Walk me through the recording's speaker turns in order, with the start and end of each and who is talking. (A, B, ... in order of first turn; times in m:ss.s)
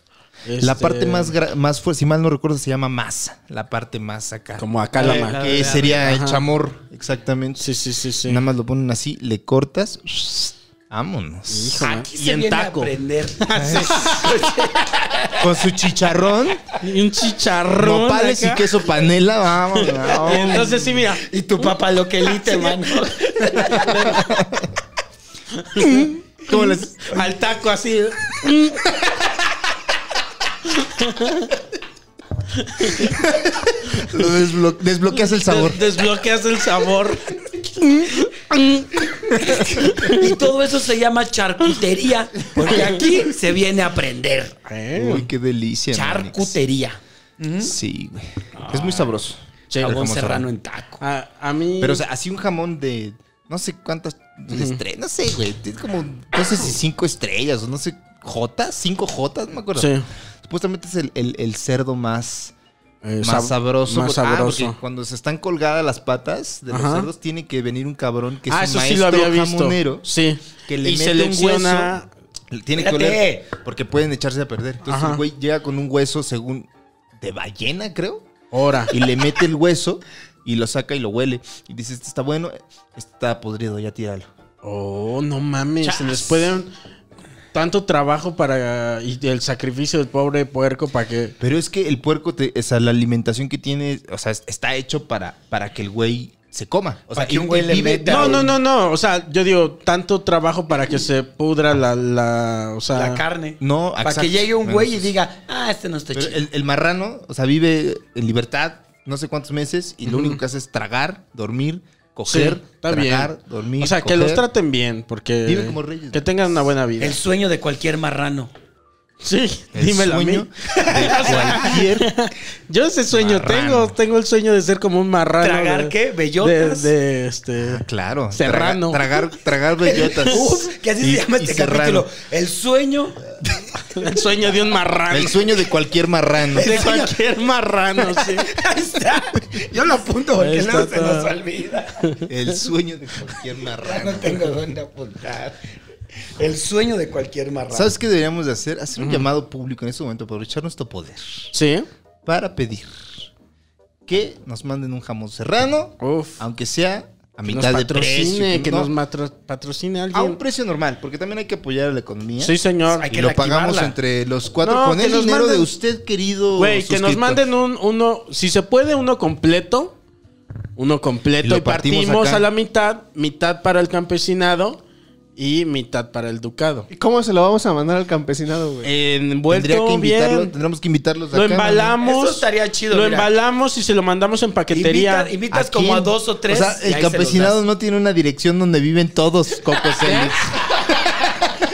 0:00.4-0:01.4 A
0:00.6-0:07.7 B
0:04.6-0:06.4 A
0:05.0-0:06.1 C
0:07.6-0:08.4 A
0:08.2-0:11.9 B
0:11.5-0:14.8 A
0:11.8-0:15.5 D
0:13.5-0:14.3 B
0:15.4-0:16.7 B
0:16.8-0:18.8 A
0:17.7-0:20.8 B
0:19.7-0:23.0 A
0:20.2-0:24.2 D
0:23.6-0:24.3 A
0:23.8-0:24.7 B
0:25.6-0:29.0 A
0:25.8-0:27.3 B
0:30.7-0:31.5 A
0:32.6-0:33.2 A
0:33.0-0:35.9 B
0:35.3-0:39.1 A
0:39.4-0:44.6 D
0:39.6-0:40.4 A
0:42.6-0:43.0 A
0:44.6-0:45.3 A
0:44.9-0:46.6 B
0:45.9-0:47.7 D
0:47.6-0:50.5 B
0:48.6-0:49.2 D
0:49.7-0:50.0 A
0:49.8-0:51.0 D
0:51.0-0:52.0 A
0:51.8-0:59.9 B
0:54.5-0:54.8 A
0:59.8-1:00.1 A
1:00.4-1:02.5 B
1:03.0-1:04.8 A
1:03.2-1:10.1 B
1:06.7-1:07.1 A
1:08.5-1:12.1 A
1:10.7-1:11.9 B
1:12.5-1:18.3 B
1:12.8-1:13.5 D
1:14.9-1:15.2 A
1:18.5-1:19.0 A
1:18.9-1:24.3 B
1:24.6-1:26.7 A
1:25.8-1:26.5 D
1:27.5-1:31.4 A
1:31.4-1:38.5 B
1:37.1-1:38.5 D
1:38.1-1:43.2 A
1:42.9-1:46.4 D
1:43.6-1:45.1 B
1:46.1-1:54.4 B
1:50.1-1:50.4 A
1:52.3-1:57.2 A
1:55.4-1:56.5 B
1:57.0-1:58.5 D
1:59.2-2:09.0 A
1:59.7-2:02.1 B
2:00.9-2:01.8 D
2:03.1-2:04.0 B
2:05.4-2:06.9 D
2:07.6-2:12.1 B
2:09.9-2:10.6 A
2:10.2-2:13.4 D
2:13.9-2:15.5 A
2:15.1-2:16.8 B
2:16.5-2:17.2 D
2:16.6-2:18.6 A
2:18.0-2:22.1 D
2:20.4-2:21.3 A
2:22.3-2:24.5 B
2:23.8-2:25.6 D
2:26.4-2:27.9 D
2:27.7-2:31.5 B
2:29.0-2:29.3 A
2:31.5-2:31.9 A
2:32.3-2:33.3 B
2:34.1-2:38.9 B
2:36.0-2:36.4 A
2:37.5-2:40.4 A
2:40.1-2:42.6 B
2:42.4-2:43.1 A
2:42.9-2:44.0 D
2:43.1-2:47.4 B
2:44.6-2:45.7 A
2:46.6-2:50.0 A
2:50.8-2:54.8 A
2:51.4-2:52.5 B
2:55.4-2:56.9 A
2:56.9-2:58.9 C
2:58.8-3:00.5 A
2:59.5-3:02.0 B
3:01.3-3:05.3 A
3:02.0-3:03.3 D
3:04.7-3:07.6 D
3:05.5-3:10.7 B
3:10.0-3:10.4 A